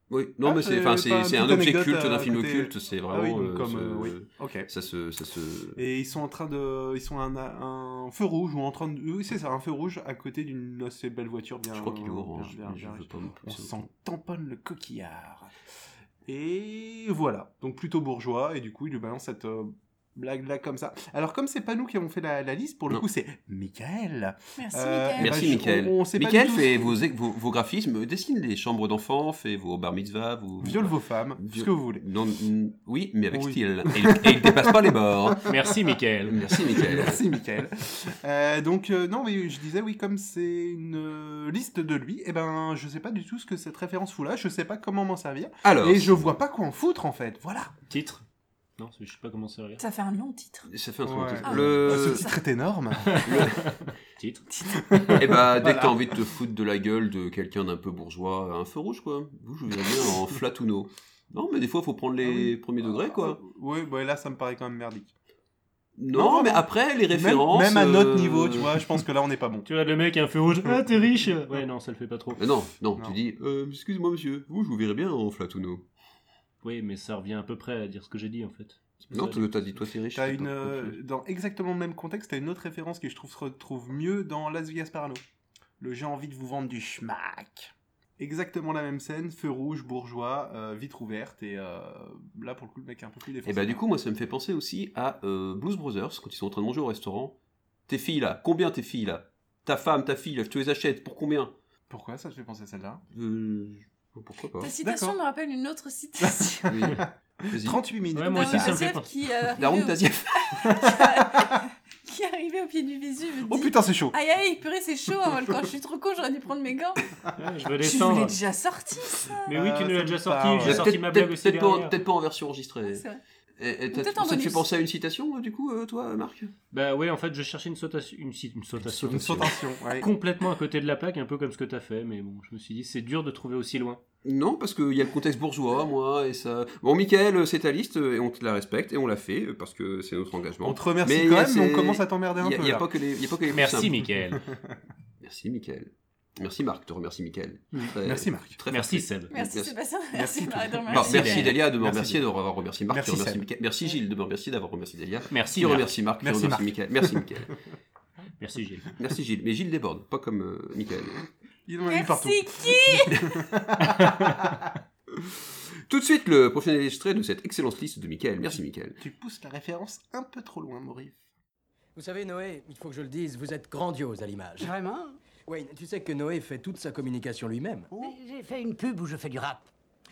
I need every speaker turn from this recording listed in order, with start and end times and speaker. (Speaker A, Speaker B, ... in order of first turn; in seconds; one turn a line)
Speaker A: 0.1-5.8
Speaker B: 0.4-4.7
Speaker B: 5.8-15.6
Speaker A: 11.7-13.8
Speaker B: 16.3-27.0
Speaker C: 24.6-25.4
Speaker A: 25.2-35.5
Speaker B: 30.6-32.0
Speaker B: 33.3-35.4
Speaker D: 35.5-36.5
Speaker A: 36.2-37.2
Speaker B: 36.5-47.7
Speaker A: 45.6-46.3
Speaker D: 47.9-48.2
Speaker D: 48.8-49.8
Speaker C: 49.8-50.7
Speaker A: 50.7-52.2
Speaker B: 51.0-53.5
Speaker C: 51.4-52.4
Speaker D: 53.1-54.4
Speaker A: 53.2-53.7
Speaker C: 54.6-54.8
Speaker B: 54.9-56.1
Speaker A: 55.2-63.4
Speaker B: 62.2-65.1
Speaker A: 66.0-68.8
Speaker B: 66.1-69.7
Speaker D: 69.7-72.5
Speaker A: 72.4-75.8
Speaker D: 76.6-79.5
Speaker A: 79.1-81.0
Speaker B: 80.1-85.2
Speaker B: 85.8-93.8
Speaker A: 93.5-97.4
Speaker A: 97.9-101.5
Speaker B: 101.9-103.0
Speaker A: 103.1-104.7
Speaker C: 104.6-106.7
Speaker B: 104.8-105.2
Speaker B: 106.2-108.8
Speaker A: 106.7-107.8
Speaker D: 108.1-109.1
Speaker C: 108.3-117.1
Speaker A: 109.5-110.7
Speaker B: 110.7-111.4
Speaker B: 113.5-114.2
Speaker D: 117.4-118.4
Speaker C: 117.8-119.5
Speaker D: 119.5-122.0
Speaker B: 119.5-120.9
Speaker A: 120.6-123.0
Speaker C: 122.9-123.2
Speaker A: 123.6-126.5
Speaker C: 123.9-124.7
Speaker D: 126.7-134.0
Speaker B: 129.0-130.1
Speaker A: 134.2-144.1
Speaker B: 140.6-142.9
Speaker D: 143.5-144.4
Speaker A: 145.2-149.7
Speaker B: 148.0-148.6
Speaker D: 148.7-149.3
Speaker C: 149.3-151.5
Speaker B: 150.1-152.2
Speaker A: 150.9-157.5
Speaker D: 150.9-151.6
Speaker B: 152.9-153.5
Speaker D: 155.3-155.9
Speaker B: 156.2-157.3
Speaker D: 158.4-158.9
Speaker A: 159.0-161.2
Speaker B: 161.7-164.7
Speaker C: 161.9-163.2
Speaker A: 165.9-169.0
Speaker B: 169.0-171.3
Speaker E: 172.0-174.7
Speaker F: 174.6-175.2
Speaker E: 175.5-177.9
Speaker F: 177.9-179.7